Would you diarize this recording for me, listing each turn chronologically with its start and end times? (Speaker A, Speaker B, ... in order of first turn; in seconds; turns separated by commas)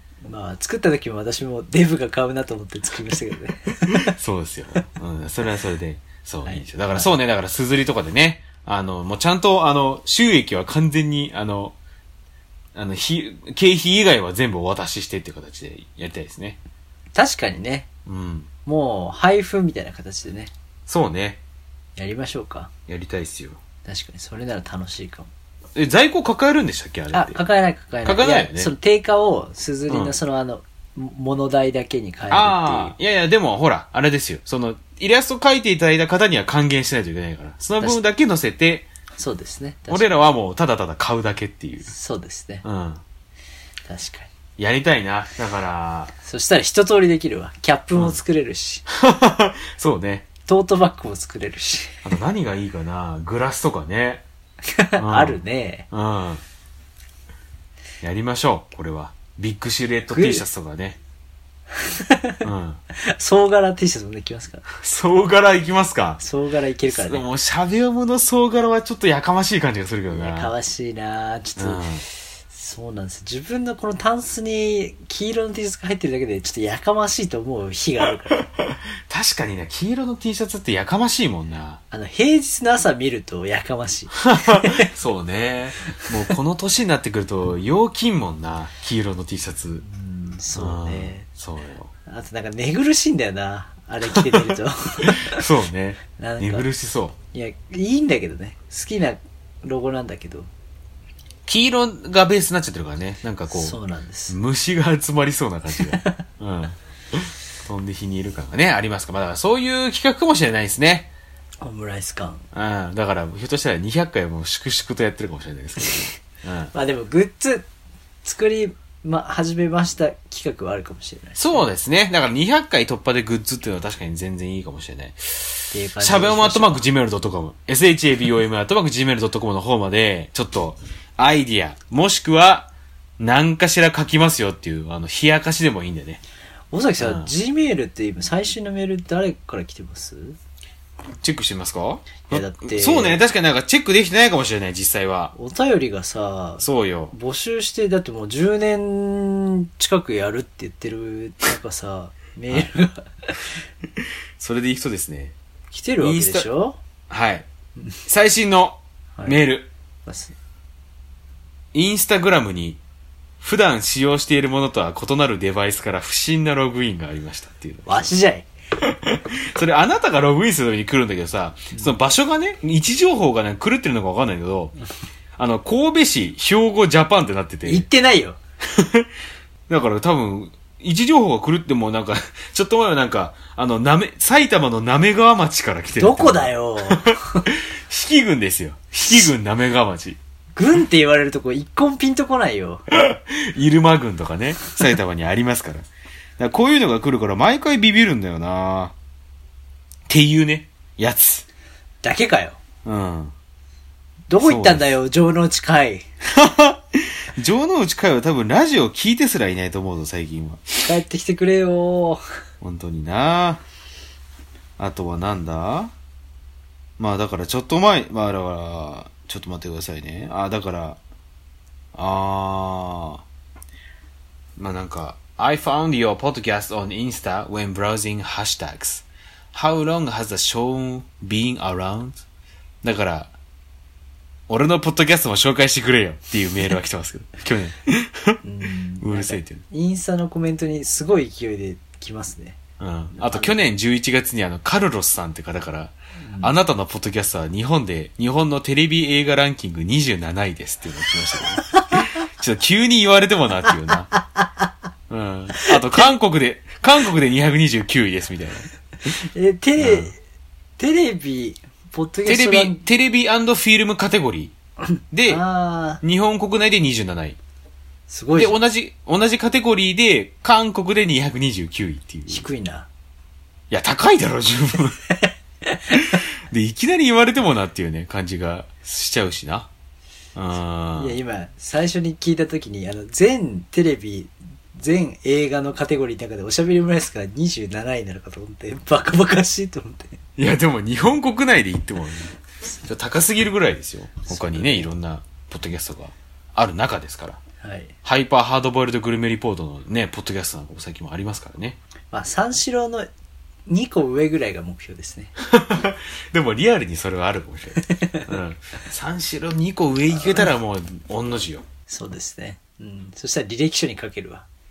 Speaker A: 0.2-4.1, Speaker B: 3.9-11.8, Speaker A: 6.4-7.1, Speaker B: 12.7-16.6, Speaker A: 17.1-17.9, Speaker B: 18.1-18.5, Speaker A: 18.6-20.5, Speaker B: 20.9-21.4, Speaker A: 22.0-22.7, Speaker B: 22.9-23.6, Speaker A: 23.8-25.3, Speaker B: 25.7-27.4, Speaker A: 27.1-32.9, Speaker B: 28.0-28.7, Speaker B: 29.9-30.1, Speaker B: 32.3-38.9, Speaker A: 39.2-40.1, Speaker B: 39.9-41.9, Speaker A: 41.9-42.6, Speaker B: 42.6-43.0, Speaker A: 43.9-44.3, Speaker B: 44.6-46.1, Speaker A: 46.2-48.8, Speaker B: 48.9-50.3, Speaker A: 50.5-52.0, Speaker B: 52.0-54.2, Speaker A: 54.7-55.9, Speaker B: 55.0-55.4, Speaker B: 55.9-56.4, Speaker B: 58.0-61.0, Speaker A: 60.1-60.4, Speaker A: 61.8-64.6, Speaker B: 62.4-62.8, Speaker B: 64.8-66.2, Speaker A: 66.2-67.2, Speaker B: 66.9-70.5, Speaker A: 70.1-71.8, Speaker B: 71.6-72.0, Speaker A: 72.5-78.4, Speaker B: 78.3-81.8, Speaker A: 81.9-84.9, Speaker B: 84.2-89.8, Speaker A: 89.8-91.2, Speaker B: 90.5-91.9, Speaker A: 92.0-95.4, Speaker B: 94.1-97.2, Speaker A: 96.2-96.7, Speaker A: 97.3-100.5, Speaker B: 101.5-103.8, Speaker A: 103.5-104.3, Speaker B: 104.3-111.1, Speaker A: 105.9-106.2, Speaker A: 111.6-112.4, Speaker B: 112.5-116.7, Speaker A: 116.7-117.7, Speaker A: 118.2-121.6, Speaker B: 121.3-136.2, Speaker A: 125.7-126.8, Speaker A: 136.7-140.4, Speaker B: 137.0-137.3, Speaker B: 141.2-145.3, Speaker A: 142.3-143.2, Speaker A: 145.3-153.5, Speaker B: 146.6-147.1, Speaker B: 154.4-155.3, Speaker A: 155.7-156.8, Speaker B: 156.0-156.5, Speaker B: 157.1-157.4, Speaker B: 158.1-159.7, Speaker A: 160.1-160.3, Speaker B: 161.7-162.8, Speaker B: 163.4-168.0, Speaker A: 167.8-168.5, Speaker B: 168.8-174.8, Speaker B: 175.4-177.8, Speaker A: 177.7-178.4, Speaker B: 178.7-179.1, Speaker B: 179.7-190.2, Speaker A: 186.0-187.5, Speaker A: 190.6-192.8, Speaker B: 192.9-195.9, Speaker B: 196.4-198.9, Speaker B: 200.1-201.4, Speaker A: 202.0-202.6, Speaker B: 202.8-203.3, Speaker A: 204.3-206.0, Speaker B: 204.4-204.8, Speaker B: 206.2-210.8, Speaker A: 210.8-212.2, Speaker B: 212.6-213.6, Speaker B: 214.8-215.9, Speaker B: 217.0-221.0, Speaker B: 221.9-223.2, Speaker B: 224.6-232.2, Speaker B: 232.8-233.3, Speaker B: 234.5-238.4, Speaker A: 238.4-242.6, Speaker B: 239.0-239.6, Speaker B: 242.8-254.1, Speaker A: 243.2-243.5, Speaker A: 246.2-246.5, Speaker B: 255.1-258.7, Speaker A: 255.6-256.0, Speaker A: 259.1-260.2, Speaker B: 259.8-260.1, Speaker A: 260.8-262.8, Speaker B: 262.2-264.5, Speaker B: 265.1-265.4, Speaker A: 265.3-266.0, Speaker B: 266.0-267.4, Speaker A: 268.1-268.6, Speaker B: 268.4-272.4, Speaker A: 272.3-272.9, Speaker B: 273.7-275.0, Speaker A: 275.6-276.0, Speaker B: 275.9-279.7, Speaker B: 280.3-281.2, Speaker A: 280.9-290.2, Speaker B: 290.4-297.4, Speaker A: 294.2-294.9, Speaker A: 297.6-297.9, Speaker B: 298.0-301.8, Speaker A: 302.1-303.1, Speaker A: 303.7-305.3, Speaker B: 305.4-311.6, Speaker A: 307.9-308.2, Speaker A: 311.9-314.4